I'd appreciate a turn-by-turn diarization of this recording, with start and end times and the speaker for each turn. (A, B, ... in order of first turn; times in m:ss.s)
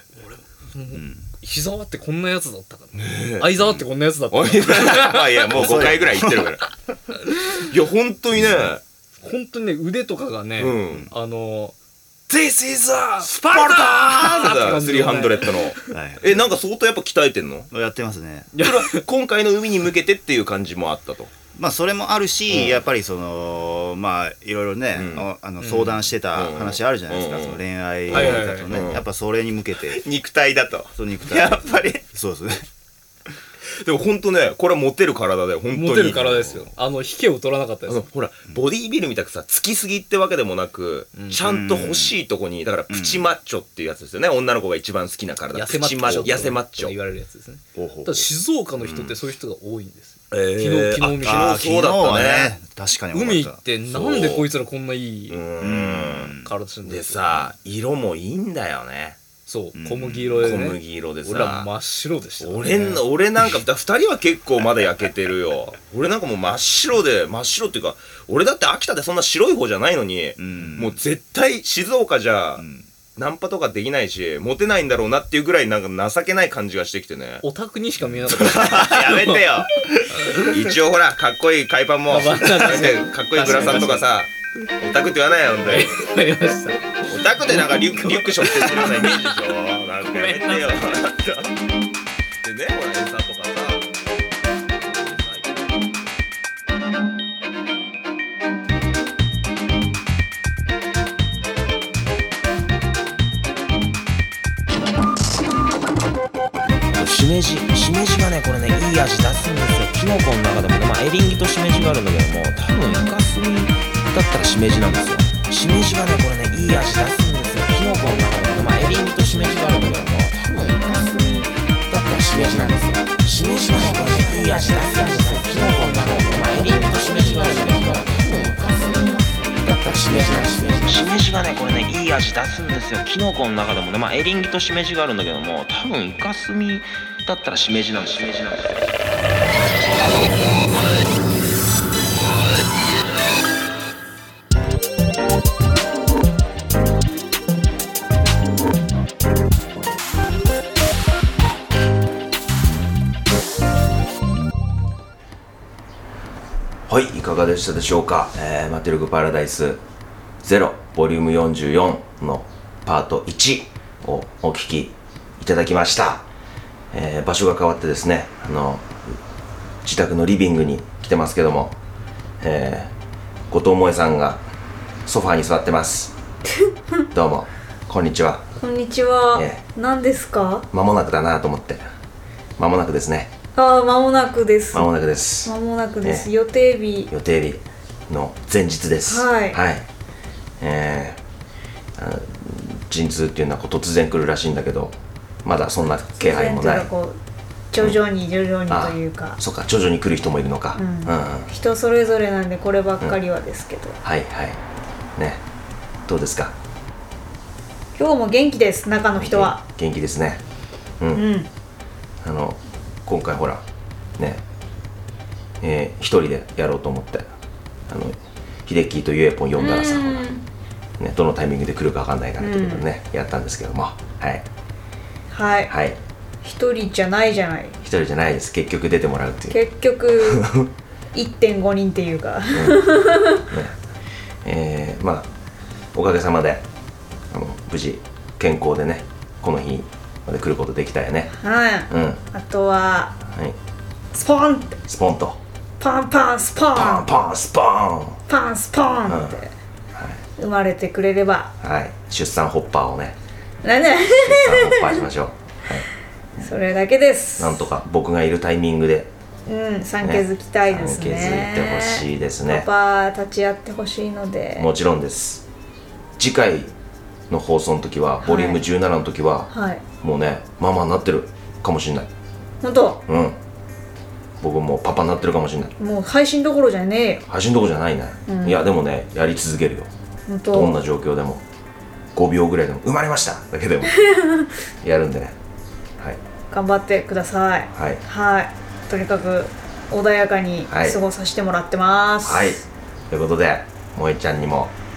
0:00.3-0:06.0 A
0:01.0-0:01.2 B
0:03.0-0:03.6 C
0:04.3-0:06.6 C
0:05.6-0:06.5 B
0:07.1-0:07.7 A
0:07.7-0:08.8 C
0:09.2-0:11.8 A
0:10.6-0:11.1 C
0:12.3-0:17.7 C
0:13.2-0:15.9 A
0:15.9-0:16.3 B
0:17.7-0:18.5 B
0:18.5-0:19.0 A
0:18.6-0:21.3 C
0:21.6-0:30.0 B
0:22.5-0:22.8 C
0:25.0-0:25.3 C
0:25.6-0:26.1 A
0:26.3-0:29.0 C
0:28.1-0:28.8 A
0:29.9-0:32.0 C
0:31.0-0:32.7 B
0:33.8-0:36.7 C
0:35.7-0:38.0 A
0:37.9-0:46.9 C
0:41.2-0:41.4 A
0:41.4-0:42.2 B
0:42.9-0:43.2 B
0:45.5-0:51.6 A
0:47.8-0:48.2 B
0:48.8-0:49.2 C
0:50.3-0:52.5 C
0:51.2-0:53.6 B
0:53.1-0:55.4 A
0:53.9-0:54.5 C
0:55.3-0:56.3 C
0:55.6-0:56.5 B
0:56.4-0:57.5 A
0:56.9-0:59.2 C
0:59.5-1:03.0 A
0:59.8-1:00.5 B
1:00.4-1:01.7 C
1:02.4-1:12.6 C
1:10.4-1:11.0 B
1:12.6-1:12.9 B
1:13.2-1:17.4 C
1:17.4-1:20.6 A
1:18.3-1:26.0 C
1:22.1-1:24.1 A
1:25.6-1:29.3 A
1:27.1-1:31.5 C
1:30.0-1:31.0 A
1:32.4-1:33.9 C
1:34.8-1:35.6 C
1:47.0-2:09.0 D
2:09.7-2:18.7 D
2:36.9-2:39.8 E
2:40.4-2:46.3 E
2:46.9-2:49.2 E
2:49.8-2:51.8 E
2:52.4-2:52.9 E
2:53.5-2:54.4 E
2:55.1-2:56.1 E
2:57.1-2:58.5 E
2:58.6-3:00.7 F
2:59.3-2:59.6 E
3:00.7-3:01.8 E
3:02.6-3:03.3 E
3:03.6-3:04.9 F
3:04.7-3:06.3 E
3:05.4-3:07.1 F
3:07.1-3:09.9 E
3:09.1-3:09.6 F
3:10.6-3:11.2 E
3:12.0-3:16.9 E
3:16.2-3:17.2 F
3:17.7-3:19.4 F
3:18.7-3:21.5 E
3:20.8-3:24.0 F
3:24.0-3:24.6 E
3:25.2-3:25.4 E
3:26.1-3:26.6 E
3:28.0-3:29.6 F
3:29.2-3:30.4 E
3:31.0-3:31.3 E
3:31.1-3:31.5 F
3:32.2-3:33.6 E
3:34.2-3:34.4 E
3:35.6-3:37.3 E
3:37.9-3:40.4 E
3:39.6-3:40.4 F
3:41.0-3:44.4 E
3:42.4-3:42.9 F
3:45.3-3:45.7 F
3:45.7-3:46.0 E
3:46.4-3:47.8 F
3:47.8-3:49.6 E
3:49.5-3:50.5 F
3:50.2-3:50.7 E
3:51.1-3:53.4 F
3:52.5-3:52.9 E
3:53.5-3:53.8 E
3:54.4-3:55.3 E
3:55.9-3:56.6 E
3:57.3-4:01.3 E
4:01.3-4:03.2 F
4:01.9-4:02.2 E
4:04.1-4:04.8 F
4:04.9-4:05.4 E
4:05.8-4:07.1 F
4:06.8-4:08.2 E
4:08.3-4:09.5 F
4:09.1-4:09.4 E
4:10.0-4:10.2 E
4:10.4-4:11.5 F
4:11.6-4:13.2 E
4:13.6-4:15.0 F
4:14.2-4:15.8 E
4:16.4-4:17.6 F
4:17.4-4:19.1 E
4:19.5-4:24.7 F
4:20.0-4:22.7 E
4:24.6-4:25.4 E
4:26.2-4:26.7 E
4:27.3-4:32.1 E
4:28.2-4:28.6 F
4:29.5-4:29.8 F
4:32.6-4:33.0 F
4:33.1-4:33.4 E
4:34.4-4:35.7 E
4:35.8-4:37.2 F
4:37.3-4:39.9 E
4:38.3-4:38.6 F
4:40.3-4:40.8 F
4:40.5-4:41.4 E
4:42.2-4:43.9 E
4:43.9-4:44.5 F
4:44.8-4:45.4 E
4:46.5-4:52.6 F
4:47.7-4:48.0 E
4:50.7-4:51.0 E
4:52.2-4:54.7 E